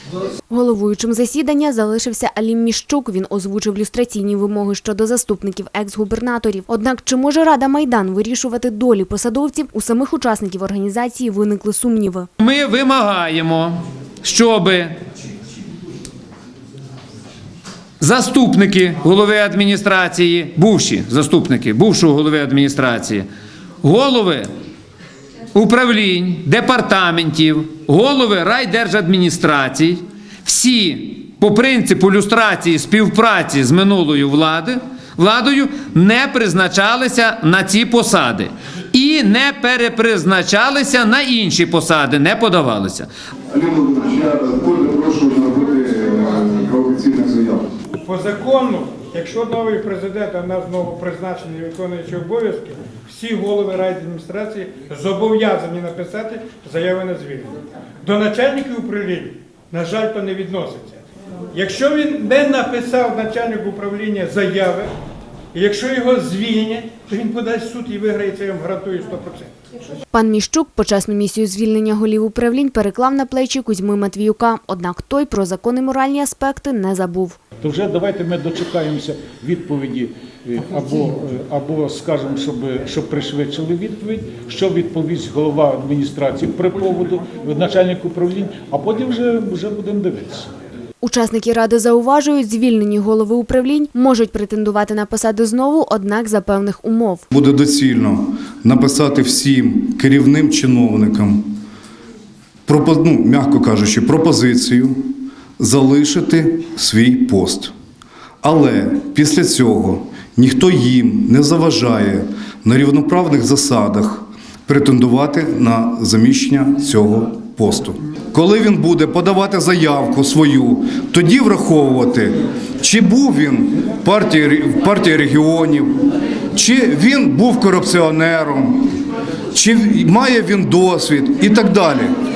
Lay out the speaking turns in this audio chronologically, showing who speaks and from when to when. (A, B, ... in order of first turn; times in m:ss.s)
0:00.5-0:12.3 A
0:12.4-0:15.0 B
0:18.0-0:23.3 B
0:23.8-0:24.5 B
0:25.5-0:43.1 B
0:43.5-0:47.7 C
0:48.0-0:57.5 D
0:58.0-1:01.0 D
1:01.5-1:04.9 D
1:05.5-1:09.5 D
1:10.1-1:17.4 A
1:17.6-1:30.5 E
1:31.0-1:37.3 A
1:37.3-1:41.6 C
1:42.7-1:47.7 C
1:48.4-2:08.9 C
2:09.6-2:12.1 C